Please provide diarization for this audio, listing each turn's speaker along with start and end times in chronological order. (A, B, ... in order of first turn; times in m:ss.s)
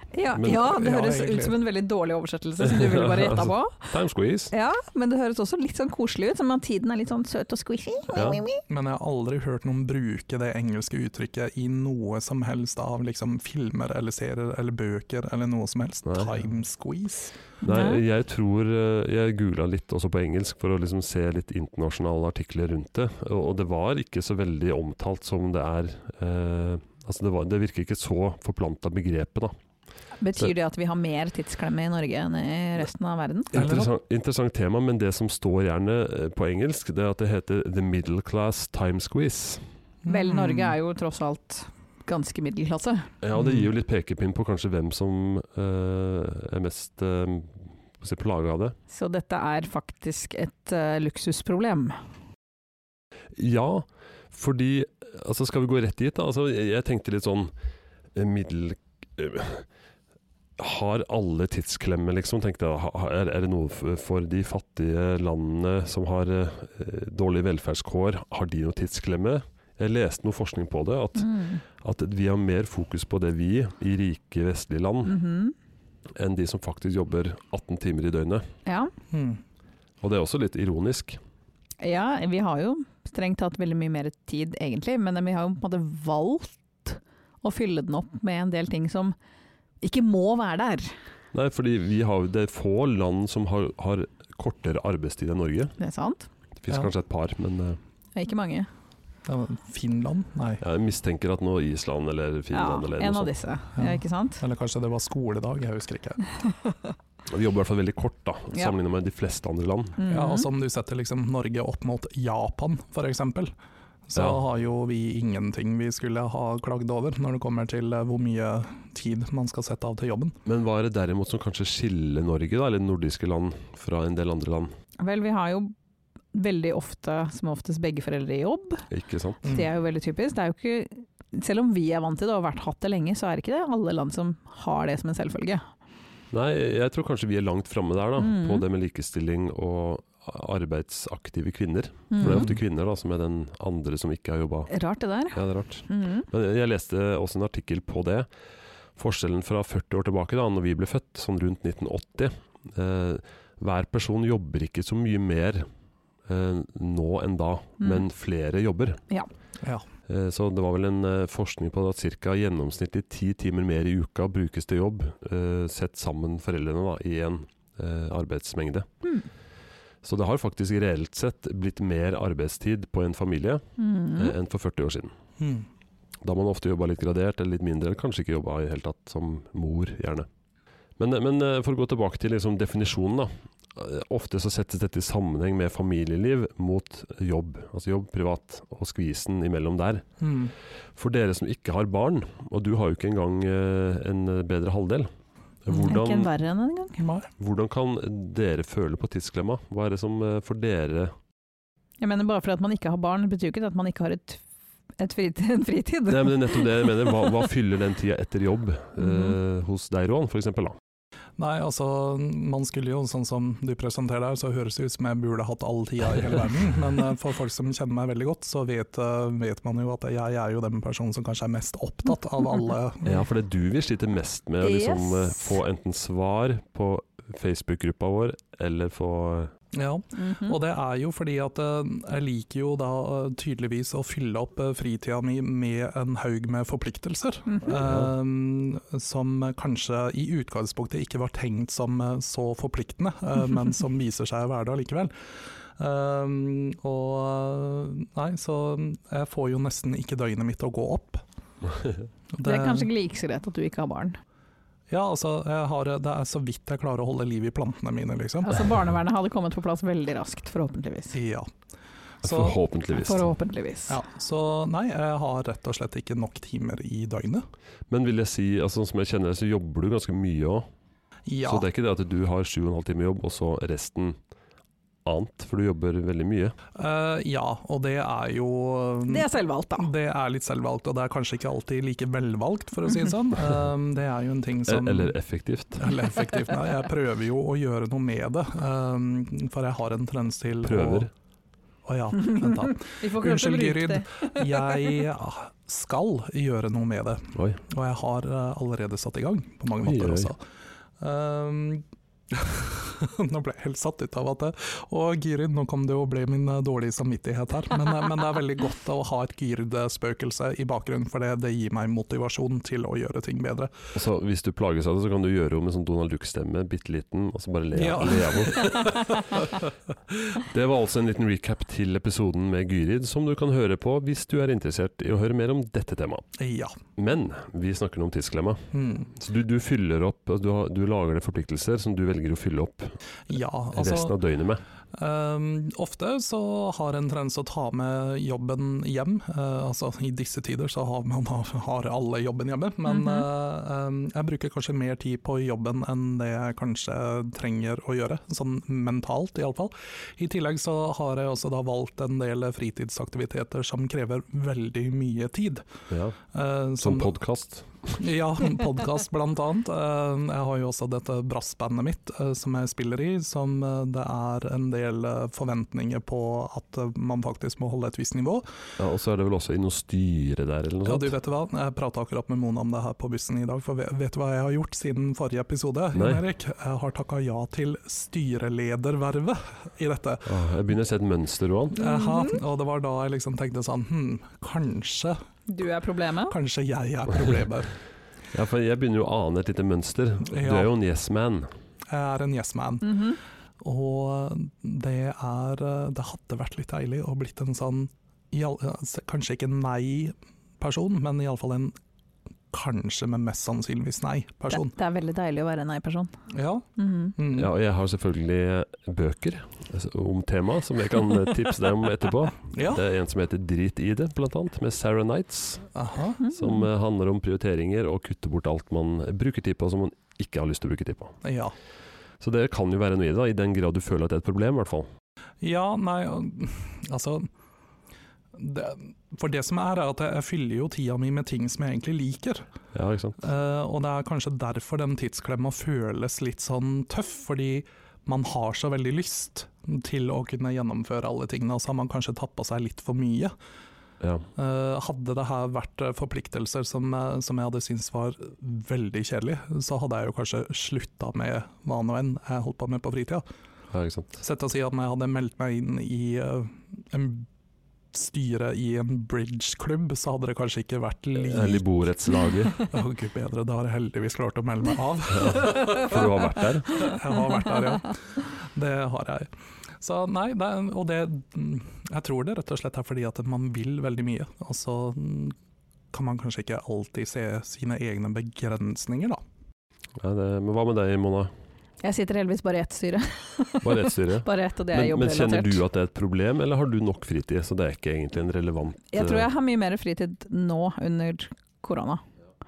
0:00.1-0:03.9 A
0:00.3-0:00.6 B
0:00.5-0:01.6 C
0:02.6-0:04.5 B
0:04.5-0:08.6 A
0:08.1-0:08.4 B
0:08.7-0:17.3 C
0:16.0-0:16.4 B
0:17.6-0:18.0 A
0:17.6-0:29.5 B
0:30.2-0:33.6 A
0:33.5-0:33.9 C
0:33.5-0:39.7 B
0:40.0-0:40.7 C
0:40.1-0:43.1 A
0:43.2-0:48.7 B
0:43.4-0:43.6 C
0:48.9-0:52.0 A
0:53.3-0:57.5 B
0:58.1-0:59.6 B
1:00.6-1:15.2 B
1:11.2-1:11.6 A
1:15.0-1:15.5 A
1:16.2-1:18.5 B
1:18.6-1:18.9 A
1:19.1-1:19.4 C
1:20.0-1:21.2 B
1:21.8-1:29.1 A
1:29.8-1:30.9 A
1:31.3-1:35.7 B
1:35.8-1:36.3 A
1:36.6-1:37.8 B
1:38.1-1:38.7 A
1:39.2-1:40.6 C
1:40.6-1:43.3 B
1:42.5-1:44.4 A
1:43.8-1:46.2 C
1:47.3-1:50.0 B
1:50.0-1:50.5 A
1:50.1-1:53.5 C
1:54.1-2:00.3 C
1:54.2-1:54.4 B
2:00.4-2:04.7 B
2:05.0-2:05.7 A
2:06.3-2:08.8 A
2:08.9-2:09.4 B
2:09.4-2:15.6 A
2:16.3-2:24.7 B
2:18.2-2:18.6 A
2:22.1-2:22.5 A
2:22.2-2:22.5 C
2:24.7-2:26.3 A
2:25.3-2:28.3 B
2:29.0-2:35.6 B
2:36.3-2:39.0 B
2:40.1-2:48.9 B
2:50.0-2:53.6 B
2:53.8-2:54.3 A
2:54.2-2:55.1 B
2:55.4-2:55.7 C
2:56.2-3:00.3 B
3:01.0-3:10.1 B
3:10.2-3:10.5 C
3:11.0-3:15.1 B
3:15.6-3:16.3 B
3:15.8-3:17.0 A
3:17.0-3:17.3 C
3:17.4-3:21.1 B
3:22.0-3:24.4 A
3:25.0-3:27.1 A
3:26.1-3:30.8 B
3:29.0-3:29.4 A
3:31.4-3:43.2 C
3:43.0-3:49.5 B
3:44.6-3:45.6 A
3:49.7-4:05.1 C
3:50.2-3:50.6 A
3:57.5-3:57.8 A
3:57.8-3:58.1 B
4:05.8-4:11.2 C
4:12.3-4:12.9 C
4:12.4-4:14.2 A
4:14.9-4:18.7 C
4:18.4-4:21.2 A
4:21.1-4:21.5 C
4:22.2-4:22.6 C
4:22.2-4:23.3 B
4:22.9-4:24.0 A
4:23.9-4:27.4 C
4:27.9-4:30.6 B
4:31.3-4:31.7 C
4:31.4-4:34.2 B
4:35.0-4:36.5 B
4:36.7-4:45.1 C
4:39.1-4:39.9 A
4:44.7-4:45.9 B
4:45.8-4:51.1 C
4:50.6-4:51.1 B
4:51.8-5:00.4 C
4:52.2-4:54.8 A
4:59.8-5:00.3 B
5:01.0-5:13.8 C
5:13.9-5:19.4 B
5:17.7-5:19.1 C
5:20.3-5:26.3 B
5:26.4-5:26.8 C
5:27.0-5:32.9 B
5:28.7-5:29.1 C
5:33.3-5:34.2 C
5:33.7-5:34.6 B
5:34.9-5:55.6 C
5:42.9-5:43.2 A
5:55.9-5:56.2 B
5:56.3-5:57.1 C
5:56.8-5:58.0 B
5:58.0-6:08.4 C
6:08.8-6:11.1 B
6:10.8-6:20.3 C
6:15.9-6:16.2 B
6:20.2-6:21.8 B
6:21.7-6:25.2 C
6:21.8-6:22.4 A
6:25.5-6:26.3 A
6:26.3-6:27.7 C
6:28.3-6:31.5 B
6:30.3-6:30.7 C
6:31.9-6:33.0 C
6:32.8-6:33.2 A
6:33.6-6:41.7 C
6:42.5-6:44.8 C
6:44.5-6:46.1 A
6:46.3-6:47.5 C
6:46.8-6:47.1 A
6:47.3-6:55.7 B
6:52.5-6:52.8 C
6:55.7-6:56.2 C
6:56.2-6:56.6 A
6:56.3-7:01.2 B
7:01.2-7:01.5 C
7:02.2-7:04.9 B
7:05.4-7:07.3 C
7:08.3-7:12.5 C
7:12.7-7:13.2 B
7:13.2-7:23.3 C
7:24.0-7:24.2 B
7:24.4-7:33.2 C
7:33.7-7:34.2 B
7:34.2-7:37.3 C
7:37.9-7:41.6 C
7:41.2-7:42.6 B
7:42.7-7:46.0 C
7:45.1-7:46.9 B
7:46.8-7:55.4 C
7:55.9-7:59.2 C
8:00.0-8:01.3 B
8:01.8-8:05.6 A
8:03.6-8:09.3 B
8:08.9-8:12.0 A